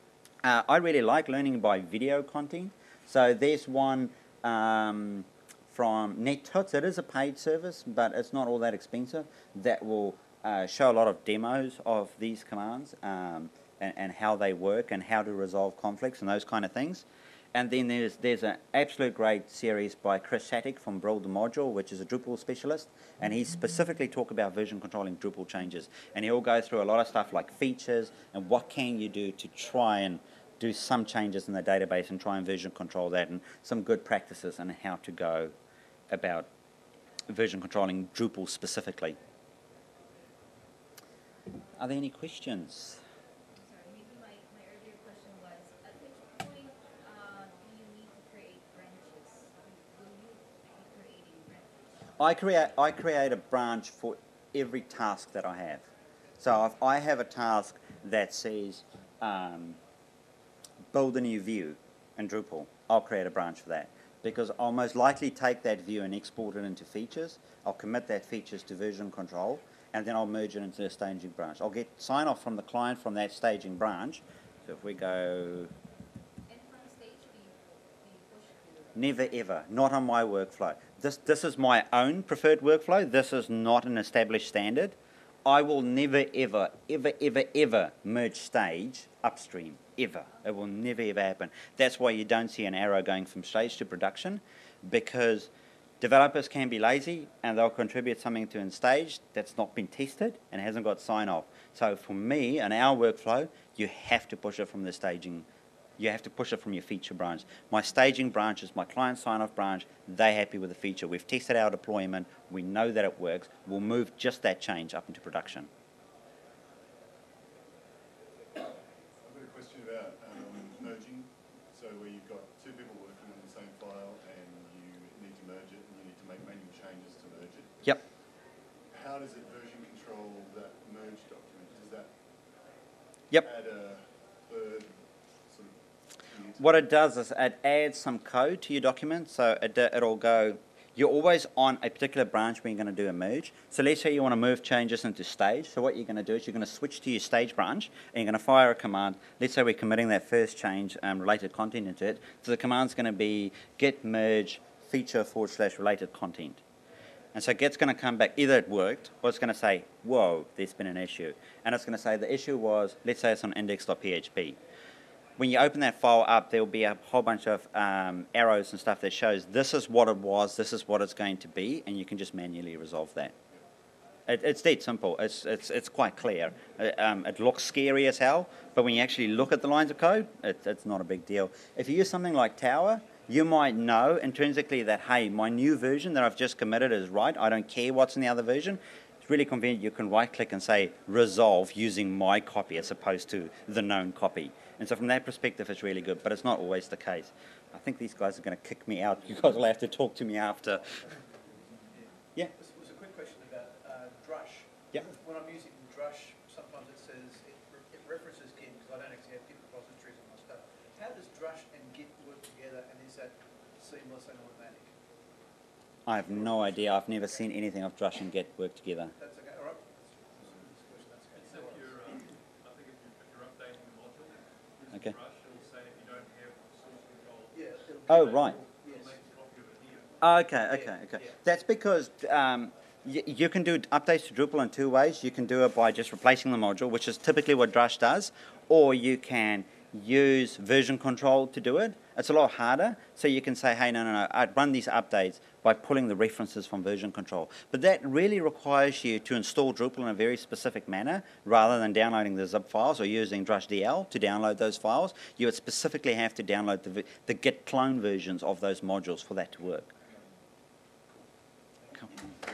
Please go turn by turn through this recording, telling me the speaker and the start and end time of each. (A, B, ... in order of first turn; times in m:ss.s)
0:00.4-0:35.5 A
0:36.1-0:36.5 A
0:37.3-0:39.2 A
0:41.8-0:43.0 A
0:43.6-0:51.9 B
0:52.2-0:55.8 A
0:56.4-0:59.8 A
1:00.9-1:15.7 A
1:16.5-1:19.0 B
1:19.0-1:35.5 A
1:36.0-1:45.4 A
1:46.0-1:55.7 A
1:59.2-2:08.0 C
2:08.9-2:12.1 C
2:13.4-2:16.8 C
2:16.6-2:36.6 A
2:37.3-2:44.6 A
2:45.4-2:53.3 A
2:54.3-3:21.1 A
3:22.6-3:34.9 D
3:36.1-3:39.1 A
3:39.2-3:42.0 D
3:41.3-3:50.1 E
3:47.5-3:49.2 D
3:48.1-3:48.6 A
3:50.2-4:19.9 A
3:50.7-3:51.4 D